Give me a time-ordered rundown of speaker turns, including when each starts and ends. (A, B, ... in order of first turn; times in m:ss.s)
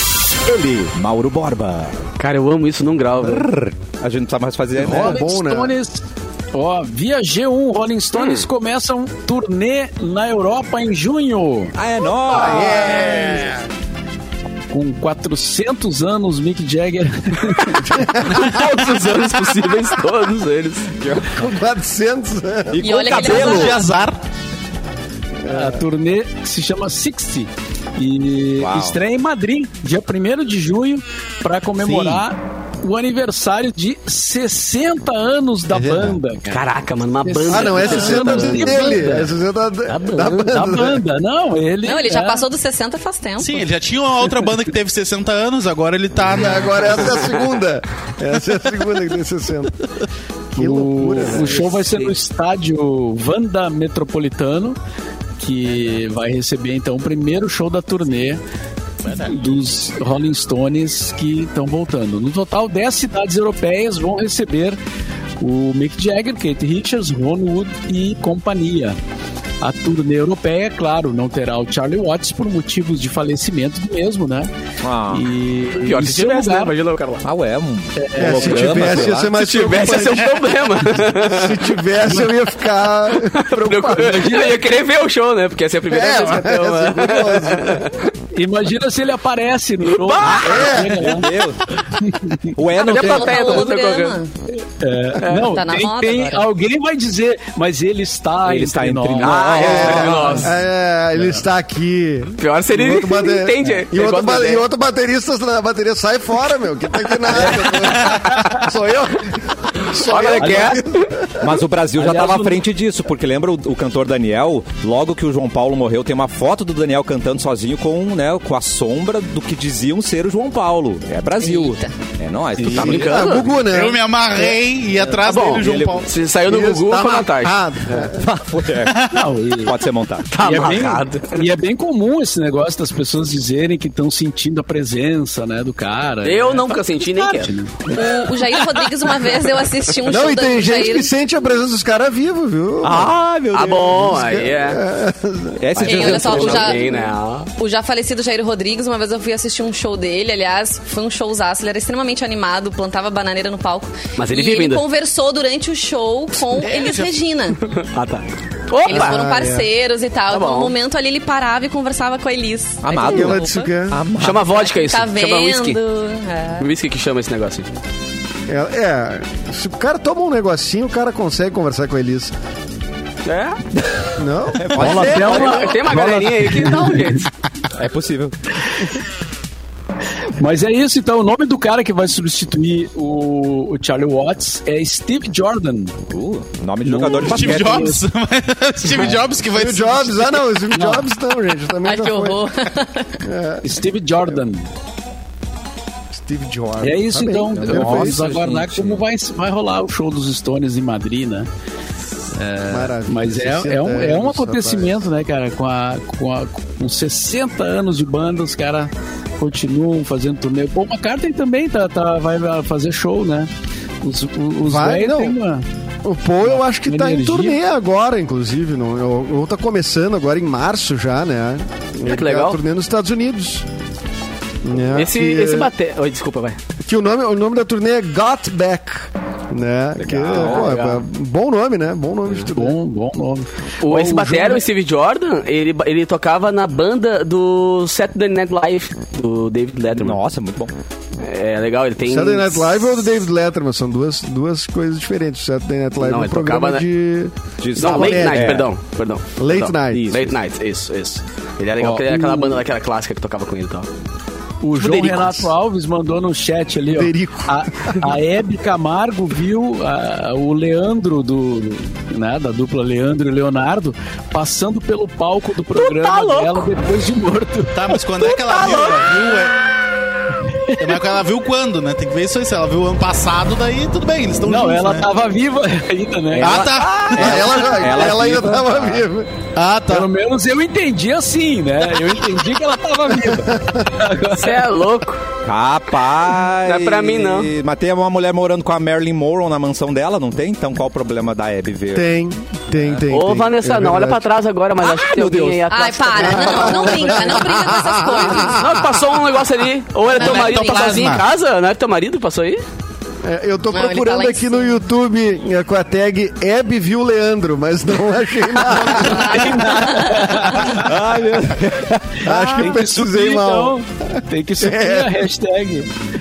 0:00.4-0:02.0 A
0:02.2-0:03.5 B
0:03.2-0:05.2 A
0:04.8-0:05.7 C
0:04.8-0:11.8 D
0:08.2-0:08.4 B
0:11.8-0:13.6 A
0:12.3-0:13.6 C
0:14.7-0:17.9 D
0:17.8-0:18.5 C
0:18.2-0:20.9 B
0:21.0-0:21.4 A
0:21.3-0:23.0 C
0:22.7-0:23.8 A
0:22.8-0:23.8 E
0:23.1-0:24.2 F
0:25.4-0:25.8 C
0:25.5-0:36.6 D
0:28.6-0:29.0 A
0:31.8-0:32.2 A
0:35.7-0:36.2 C
0:36.5-0:39.1 B
0:37.2-0:39.3 D
0:37.5-0:41.0 C
0:39.9-0:40.4 B
0:40.2-0:42.4 D
0:41.8-0:43.6 E
0:43.4-0:47.2 F
0:46.3-0:49.8 C
0:50.6-0:51.8 C
0:50.6-0:54.8 D
0:55.4-0:58.4 D
0:59.1-0:59.4 F
0:59.1-1:04.8 D
1:05.4-1:09.0 D
1:09.6-1:14.5 D
1:14.8-1:15.3 A
1:15.1-1:16.7 D
1:15.8-1:17.2 B
1:17.2-1:19.3 A
1:18.0-1:18.7 D
1:18.2-1:24.3 C
1:18.5-1:21.7 B
1:23.1-1:28.1 B
1:23.9-1:24.6 D
1:25.9-1:27.9 C
1:28.3-1:31.3 D
1:29.9-1:30.8 B
1:30.3-1:31.2 C
1:31.0-1:31.6 A
1:31.9-1:32.6 D
1:32.5-1:33.6 A
1:32.8-1:34.2 B
1:32.8-1:34.3 E
1:34.6-1:40.6 D
1:35.2-1:35.5 B
1:35.4-1:36.5 E
1:38.4-1:40.4 A
1:39.2-1:40.5 B
1:39.6-1:51.5 C
1:42.4-1:44.6 B
1:47.6-1:48.5 B
1:50.0-1:51.1 B
1:50.4-1:50.8 D
1:51.4-2:03.4 A
1:52.0-1:52.6 D
2:01.4-2:01.9 E
2:02.6-2:04.5 C
2:02.6-2:03.5 B
2:03.6-2:06.2 F
2:05.2-2:08.1 B
2:05.6-2:06.0 A
2:06.4-2:08.3 C
2:08.2-2:10.3 A
2:08.9-2:09.1 F
2:09.1-2:09.8 D
2:10.3-2:11.4 B
2:10.4-2:18.0 D
2:16.2-2:17.6 B
2:17.9-2:21.1 E
2:20.1-2:23.1 C
2:22.8-2:24.1 A
2:23.5-2:24.8 B
2:23.9-2:25.8 C
2:25.6-2:26.9 A
2:25.8-2:27.0 E
2:25.8-2:27.5 B
2:27.6-2:37.6 E
2:34.2-2:34.8 B
2:37.7-2:39.2 B
2:38.8-2:43.7 E
2:38.9-2:39.7 C
2:40.3-2:40.8 B
2:42.8-2:44.5 A
2:43.0-2:44.0 C
2:44.2-2:45.8 B
2:44.5-2:46.7 E
2:46.6-2:47.7 B
2:48.5-2:52.3 C
2:53.3-2:53.6 B
2:54.2-2:55.3 C
2:54.6-2:55.6 A
2:54.8-2:57.2 D
2:55.0-2:57.3 B
2:57.7-2:58.4 A
3:00.4-3:06.0 D
3:06.1-3:08.0 A
3:06.8-3:08.0 D
3:07.2-3:10.5 F
3:09.5-3:12.5 C
3:10.7-3:11.1 D
3:11.8-3:13.2 E
3:13.2-3:13.8 C
3:13.6-3:14.7 D
3:16.1-3:18.4 C
3:16.8-3:21.5 D
3:17.6-3:19.0 A
3:22.3-3:33.5 D
3:22.7-3:25.0 C
3:34.0-3:35.6 D
3:34.7-3:35.4 C
3:36.0-3:43.7 C
3:36.5-3:37.6 D
3:42.0-3:42.6 B
3:44.6-3:45.7 C
3:44.9-3:46.6 B
3:46.9-3:52.8 C
3:50.1-3:51.0 B
3:50.2-3:50.7 A
3:52.5-3:54.6 D
3:53.8-4:00.2 B
3:59.9-4:00.7 A
4:01.2-4:02.8 B
4:02.0-4:08.6 C
4:06.0-4:06.8 B
4:07.6-4:08.7 A
4:07.8-4:13.9 B
4:09.4-4:10.3 C
4:11.8-4:12.6 D
4:14.6-4:29.0 D
4:14.8-4:15.4 B
4:16.9-4:17.9 C
4:25.8-4:26.7 B
4:27.7-4:29.7 F
4:30.5-4:31.0 D
4:30.8-4:35.1 F
4:34.4-4:37.0 D
4:36.4-4:37.4 F
4:37.0-4:39.1 A
4:37.1-4:39.3 C
4:39.5-4:40.1 F
4:39.9-4:44.6 D
4:43.3-4:43.8 C
4:44.4-4:45.2 B
4:45.4-4:52.1 A
4:46.6-4:47.5 B
4:51.9-4:54.3 C
4:53.1-4:57.3 B
4:54.8-4:55.6 A
4:55.7-4:58.7 E
4:56.2-4:58.8 C
4:58.4-5:02.6 B
5:00.1-5:01.2 E
5:00.2-5:01.3 F
5:03.2-5:09.7 C
5:03.7-5:04.8 E
5:09.0-5:10.3 E
5:09.1-5:10.9 D
5:10.6-5:12.8 A
5:12.2-5:15.2 C
5:12.5-5:15.9 D